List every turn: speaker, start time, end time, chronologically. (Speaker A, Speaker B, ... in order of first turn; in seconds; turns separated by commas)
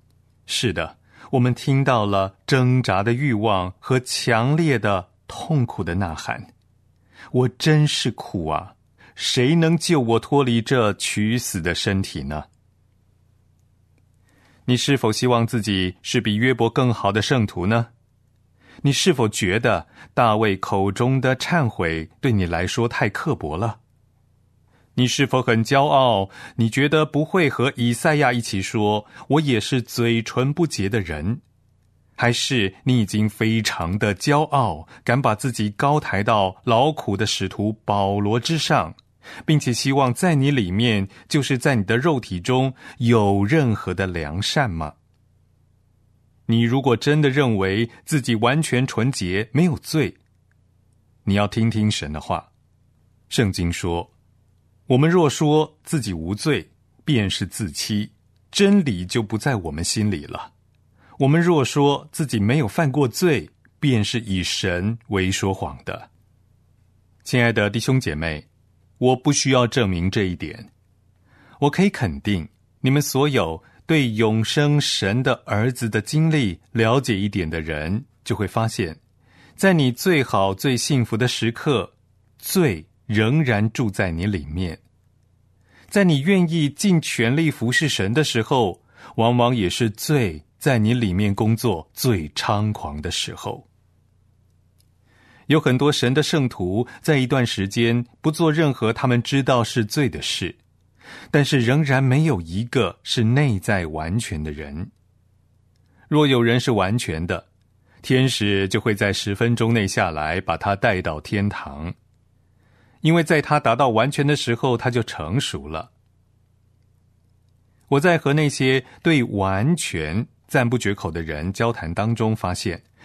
Speaker A: 0.5-6.5, Speaker A: 7.3-12.5, Speaker A: 14.7-17.9, Speaker A: 18.8-23.8, Speaker A: 24.9-31.4, Speaker A: 32.2-45.0, Speaker A: 46.5-50.2, Speaker A: 51.2-52.5, Speaker A: 53.3-54.1, Speaker A: 54.9-60.5, Speaker A: 61.2-66.1, Speaker A: 67.2-68.5, Speaker A: 69.0-70.7, Speaker A: 71.6-79.0, Speaker A: 79.6-84.8, Speaker A: 85.9-93.7, Speaker A: 95.5-100.6, Speaker A: 101.3-104.9, Speaker A: 106.1-107.5, Speaker A: 108.0-111.9, Speaker A: 113.0-115.9, Speaker A: 117.9-122.8